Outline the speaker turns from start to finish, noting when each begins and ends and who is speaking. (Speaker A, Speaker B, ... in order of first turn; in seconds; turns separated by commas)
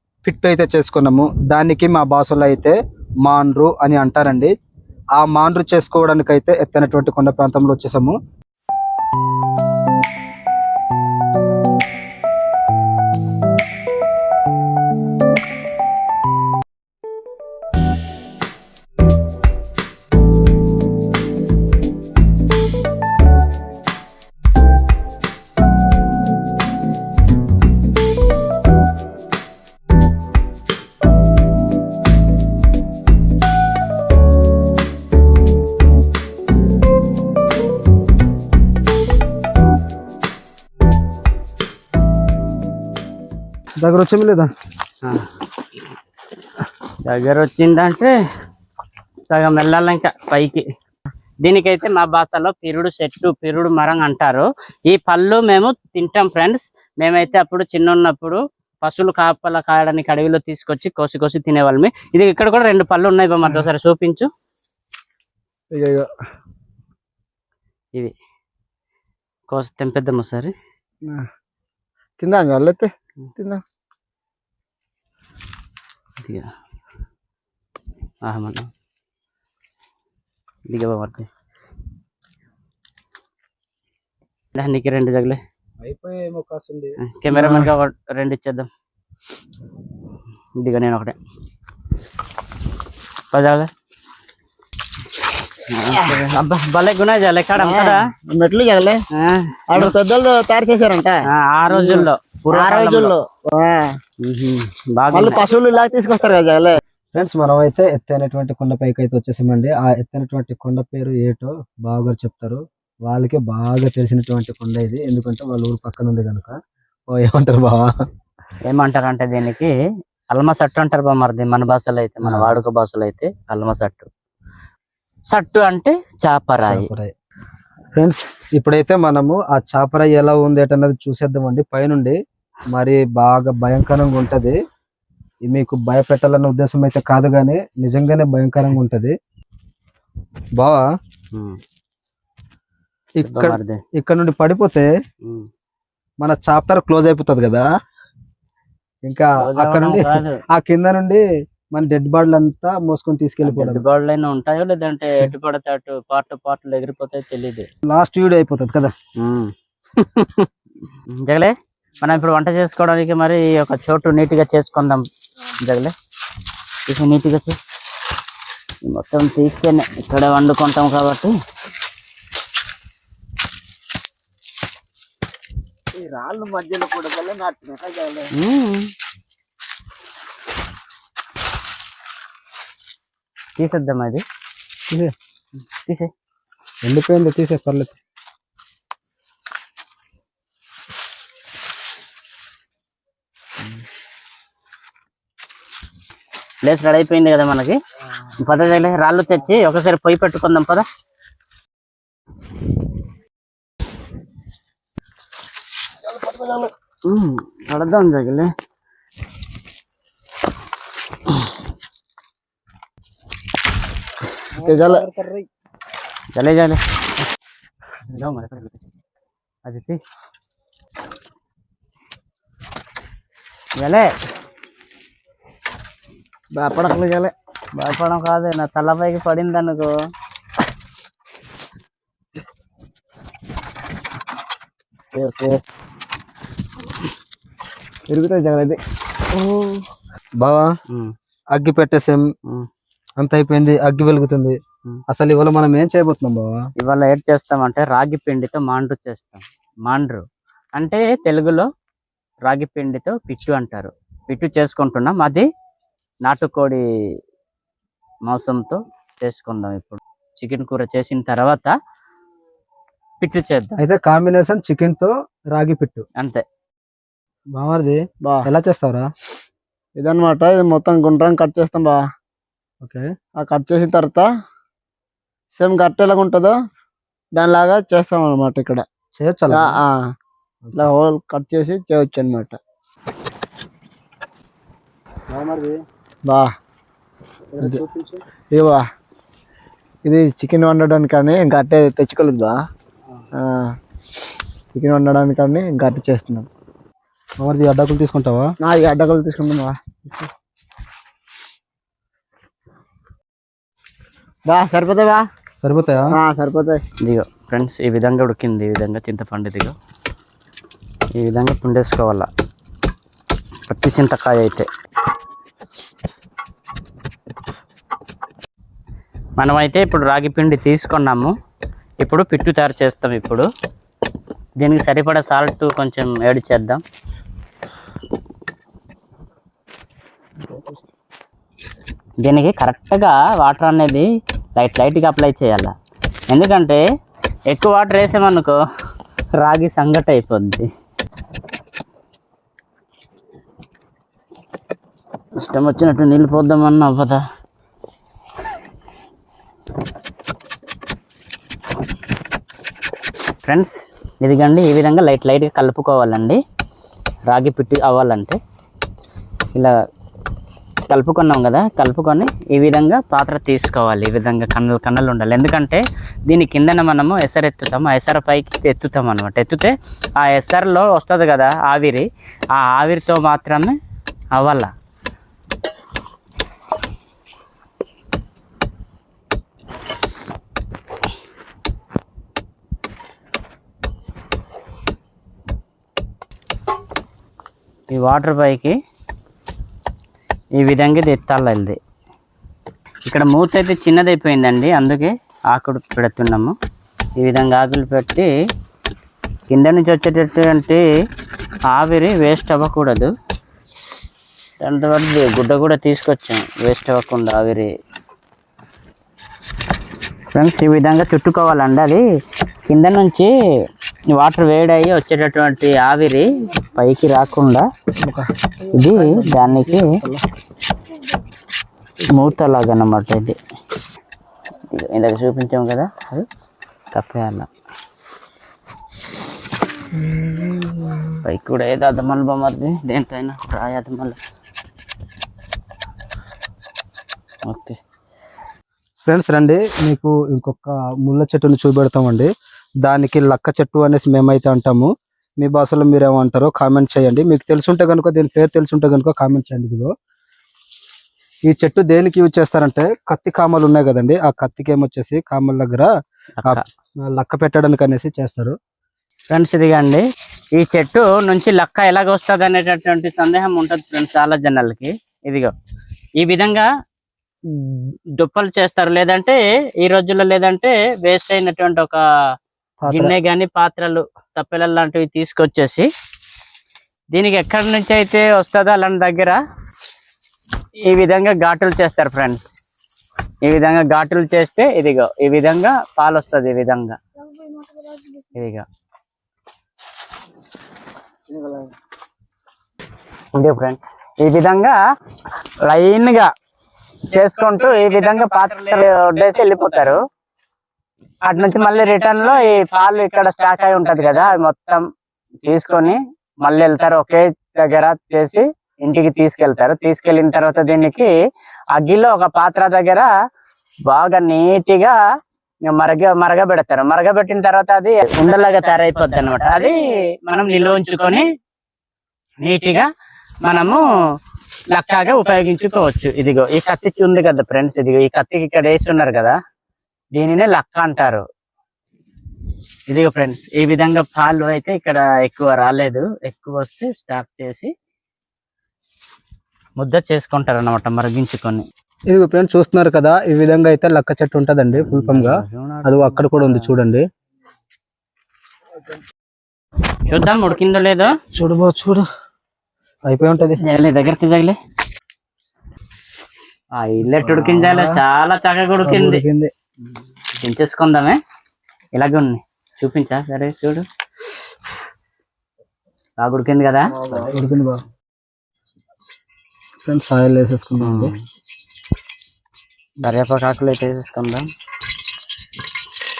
Speaker A: 0.2-4.5, Speaker A: 5.1-8.2, Speaker A: 43.8-44.5, Speaker B: 47.0-48.1, Speaker B: 49.3-50.6, Speaker B: 51.4-64.3, Speaker C: 65.7-66.1, Speaker B: 69.5-70.5, Speaker C: 72.2-73.6, Speaker B: 76.2-76.5, Speaker B: 78.2-78.7, Speaker B: 80.7-81.3, Speaker B: 84.5-85.4, Speaker A: 85.8-87.7, Speaker B: 87.0-88.7, Speaker B: 90.6-91.2, Speaker B: 93.3-93.7, Speaker B: 95.7-98.0, Speaker C: 97.5-99.0, Speaker B: 99.1-99.9, Speaker C: 99.7-103.9, Speaker B: 101.3-103.1, Speaker B: 104.2-105.4, Speaker C: 105.1-106.8, Speaker A: 107.1-116.5, Speaker A: 117.1-117.9, Speaker B: 118.6-119.7, Speaker B: 120.3-124.1, Speaker A: 122.2-122.6, Speaker B: 125.3-126.9, Speaker A: 126.6-127.1, Speaker A: 127.9-132.2, Speaker A: 132.7-134.6, Speaker A: 135.5-139.1, Speaker A: 140.6-140.8, Speaker B: 141.3-141.6, Speaker B: 143.2-143.8, Speaker A: 143.2-144.9, Speaker A: 146.2-147.7, Speaker A: 149.1-153.8, Speaker B: 149.4-150.4, Speaker B: 153.4-157.7, Speaker A: 157.8-158.9, Speaker B: 159.2-165.0, Speaker B: 165.6-165.9, Speaker B: 166.9-167.6, Speaker B: 168.8-171.3, Speaker C: 175.9-178.3, Speaker B: 178.3-178.9, Speaker B: 183.6-184.2, Speaker B: 185.8-186.1, Speaker A: 186.8-188.0, Speaker B: 196.6-197.8, Speaker B: 198.4-200.8, Speaker C: 206.2-206.7, Speaker B: 207.1-208.5, Speaker A: 214.6-215.4, Speaker C: 214.7-215.1, Speaker B: 216.3-216.8, Speaker B: 218.1-218.8, Speaker B: 219.6-220.0, Speaker B: 223.8-224.1, Speaker C: 226.5-227.3, Speaker B: 227.8-229.9, Speaker C: 235.2-235.6, Speaker C: 238.1-238.8, Speaker C: 239.3-239.8, Speaker A: 240.4-240.7, Speaker A: 241.5-242.2, Speaker A: 243.2-244.6, Speaker A: 245.1-246.5, Speaker B: 246.8-250.2, Speaker B: 250.8-251.7, Speaker B: 252.4-255.4, Speaker B: 256.2-256.8, Speaker B: 258.2-261.7, Speaker B: 263.2-263.7, Speaker A: 263.8-266.0, Speaker B: 266.2-266.4, Speaker A: 267.5-269.1, Speaker C: 268.2-268.5, Speaker C: 270.0-272.0, Speaker C: 273.4-274.3, Speaker C: 275.6-276.6, Speaker C: 277.3-278.8, Speaker A: 279.2-279.8, Speaker C: 279.5-280.0, Speaker C: 280.7-282.6, Speaker A: 285.3-285.8, Speaker A: 287.5-288.2, Speaker C: 288.5-288.8, Speaker C: 290.0-292.6, Speaker C: 293.3-293.7, Speaker C: 294.7-296.5, Speaker A: 297.4-298.5, Speaker C: 298.6-299.7, Speaker C: 304.5-305.2, Speaker A: 305.6-306.1, Speaker C: 306.1-306.8, Speaker B: 307.0-309.7, Speaker B: 311.2-312.3, Speaker B: 313.6-314.6, Speaker B: 319.4-321.3, Speaker B: 322.0-323.4, Speaker B: 324.6-326.8, Speaker B: 332.2-334.1, Speaker B: 334.6-335.7, Speaker B: 336.3-336.8, Speaker B: 337.5-338.6, Speaker B: 339.4-340.7, Speaker B: 345.4-347.2, Speaker B: 353.4-356.4, Speaker B: 357.3-358.4, Speaker B: 360.9-373.8, Speaker B: 374.3-374.7, Speaker B: 387.9-388.7, Speaker B: 390.6-391.8, Speaker B: 393.1-396.5, Speaker B: 397.2-398.3, Speaker B: 399.5-400.8, Speaker B: 401.7-403.1, Speaker B: 404.6-407.7, Speaker B: 410.3-412.0, Speaker B: 412.7-413.3, Speaker B: 414.1-417.6, Speaker B: 418.7-419.9, Speaker A: 418.8-420.2, Speaker B: 422.1-423.4, Speaker B: 424.7-426.2, Speaker B: 426.9-427.5, Speaker C: 430.2-430.8, Speaker B: 431.2-434.2, Speaker B: 437.5-437.8, Speaker A: 439.1-442.3, Speaker A: 442.8-449.9, Speaker A: 451.5-455.9, Speaker B: 456.4-456.6, Speaker A: 456.4-458.6, Speaker B: 459.3-460.0, Speaker B: 460.6-465.5, Speaker B: 466.2-466.7, Speaker B: 468.1-472.0, Speaker A: 472.8-473.1, Speaker B: 472.9-475.9, Speaker B: 477.1-479.4, Speaker B: 480.8-482.4, Speaker B: 483.4-487.0, Speaker B: 488.3-488.6, Speaker C: 491.3-491.7, Speaker B: 493.3-494.8, Speaker B: 495.6-496.3, Speaker B: 497.1-500.0, Speaker B: 501.2-504.8, Speaker B: 505.4-511.1, Speaker B: 511.7-513.1, Speaker B: 513.9-515.0, Speaker B: 515.7-521.2, Speaker B: 522.4-522.9, Speaker B: 523.4-523.8, Speaker B: 524.7-529.4, Speaker B: 530.1-531.2, Speaker B: 532.9-537.7, Speaker B: 539.8-541.6, Speaker A: 542.1-547.0, Speaker B: 544.7-546.7, Speaker B: 550.0-551.1, Speaker A: 551.3-552.0, Speaker A: 553.1-553.6, Speaker B: 553.6-554.6, Speaker B: 556.8-559.2, Speaker A: 557.0-558.0, Speaker A: 558.8-559.5, Speaker B: 560.4-561.2, Speaker B: 561.9-563.8, Speaker B: 566.2-566.9, Speaker A: 567.1-567.8, Speaker A: 569.8-571.1, Speaker B: 570.8-571.2, Speaker B: 573.0-574.5